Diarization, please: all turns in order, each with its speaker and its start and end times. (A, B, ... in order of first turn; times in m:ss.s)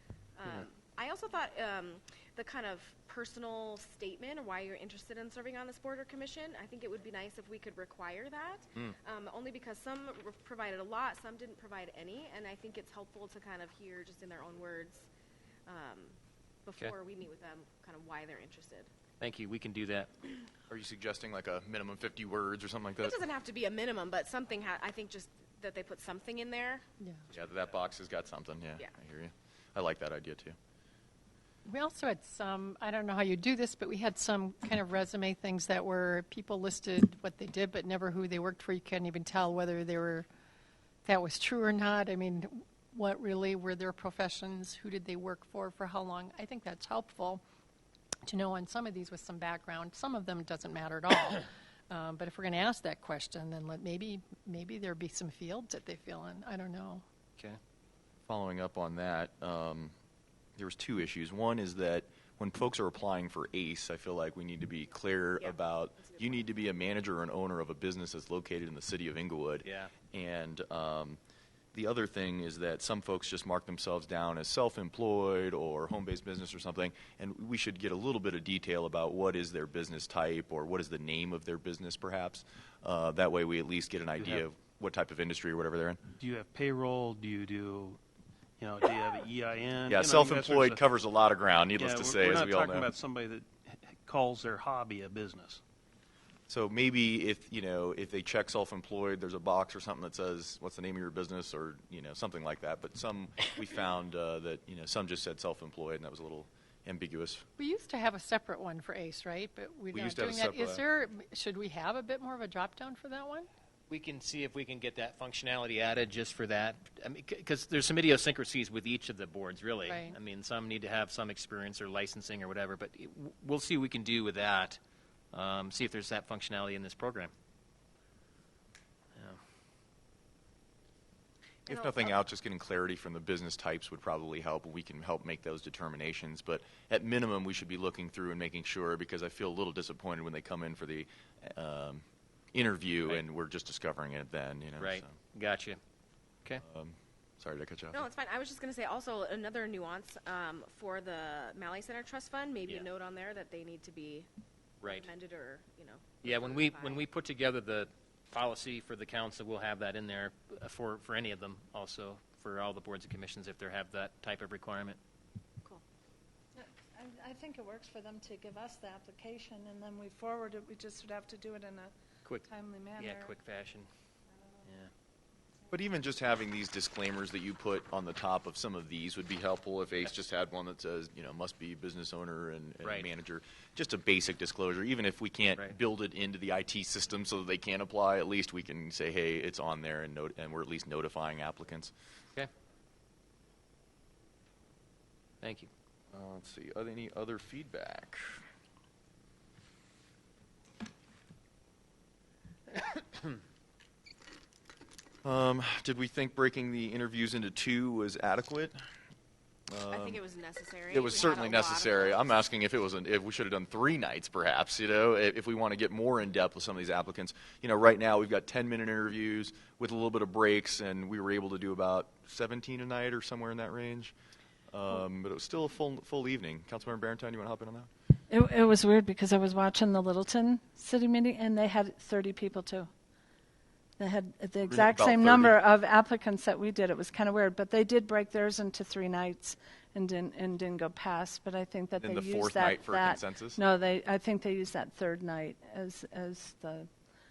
0:00.4-0:15.1 A
0:15.7-0:16.1 A
0:16.6-0:18.9 A
0:19.2-0:20.1 B
0:20.7-0:23.2 C
0:23.0-0:26.8 A
0:27.3-0:30.6 C
0:31.6-0:40.2 D
0:41.0-0:47.4 D
0:48.2-0:57.0 D
0:58.3-0:59.9 C
1:00.6-1:11.2 C
1:05.4-1:06.3 A
1:09.6-1:09.9 B
1:11.7-1:26.0 C
1:24.2-1:24.4 E
1:26.2-1:28.0 E
1:28.6-1:30.8 E
1:29.9-1:32.9 C
1:31.8-1:35.6 E
1:36.5-1:47.4 C
1:47.6-1:53.5 D
1:49.9-1:50.8 C
1:53.9-2:04.8 B
1:59.8-2:00.2 D
2:05.3-2:07.3 B
2:11.7-2:12.1 A
2:11.7-2:22.0 C
2:22.5-2:25.1 C
2:24.8-2:25.8 B
2:26.6-2:28.0 C
2:27.9-2:34.3 A
2:34.8-2:35.1 B
2:34.8-2:37.0 A
2:36.2-2:45.0 B
2:46.5-2:53.3 F
2:53.0-2:53.9 B
2:55.7-3:11.9 C
3:02.8-3:03.1 B
3:15.4-3:15.7 B
3:16.1-3:18.4 C
3:25.2-3:28.7 C
3:29.7-3:30.2 C
3:29.9-3:32.4 A
3:30.9-3:44.1 C
3:44.7-3:47.9 C
3:48.3-3:52.9 F
3:54.0-4:06.9 F
3:54.7-3:55.6 C
4:02.0-4:03.6 C